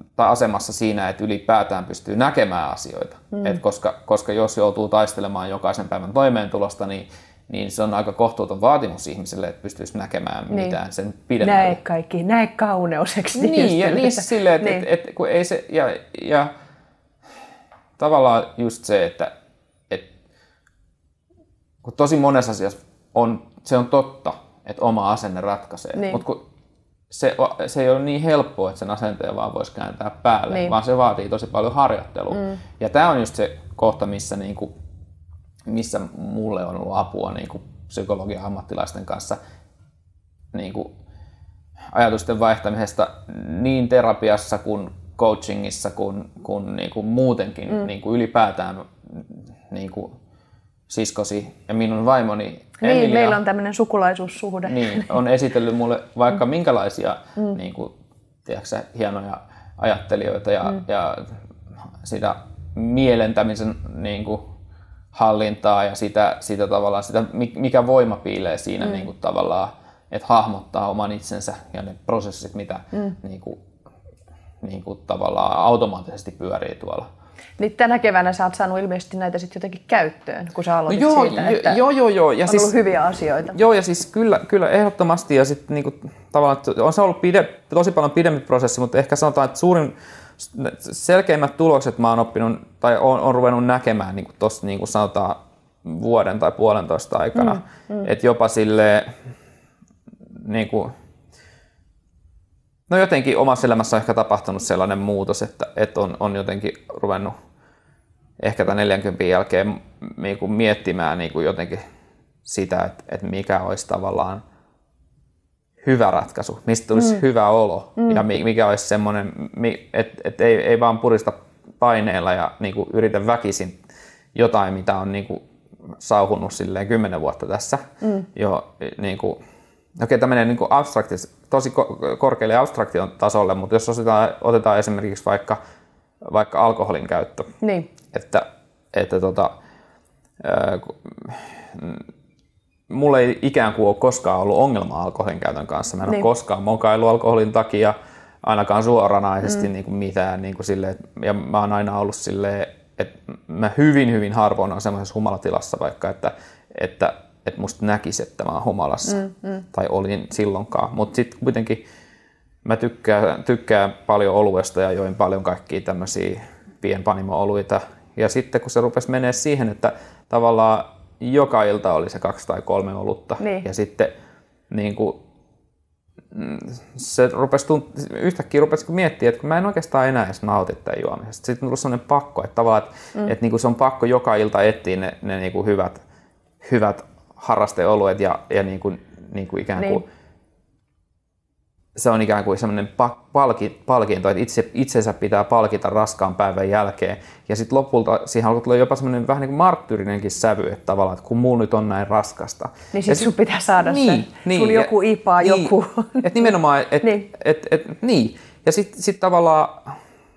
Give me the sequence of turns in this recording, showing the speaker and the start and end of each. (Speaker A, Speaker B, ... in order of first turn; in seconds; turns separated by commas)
Speaker A: 0.2-11.8, Speaker B: 10.5-10.8, Speaker B: 11.4-14.8, Speaker A: 13.3-16.5, Speaker A: 18.0-19.3, Speaker A: 21.8-26.4, Speaker B: 26.0-26.2, Speaker A: 27.1-34.7, Speaker A: 35.7-39.4, Speaker A: 40.5-40.9, Speaker A: 41.9-50.2, Speaker A: 50.9-53.4, Speaker B: 52.8-55.1, Speaker A: 54.6-57.9, Speaker A: 58.5-61.4, Speaker A: 62.0-64.5, Speaker A: 65.1-73.6, Speaker A: 74.6-77.1, Speaker B: 77.6-81.8, Speaker A: 80.9-82.7, Speaker B: 82.5-83.6, Speaker A: 83.5-99.2, Speaker B: 97.4-98.1, Speaker A: 100.4-100.9, Speaker A: 102.9-107.3, Speaker A: 108.4-111.8, Speaker A: 112.5-114.4, Speaker A: 115.8-123.8, Speaker A: 124.3-125.4, Speaker A: 126.0-129.4, Speaker A: 130.0-135.6, Speaker A: 136.2-137.5, Speaker B: 137.6-137.9, Speaker A: 138.1-139.6, Speaker A: 140.4-142.0, Speaker A: 142.9-161.8, Speaker B: 159.2-159.5, Speaker A: 162.7-174.1, Speaker B: 173.4-173.7, Speaker A: 174.7-175.2, Speaker A: 176.3-186.0, Speaker A: 186.6-190.1, Speaker A: 192.0-209.9, Speaker B: 202.9-206.3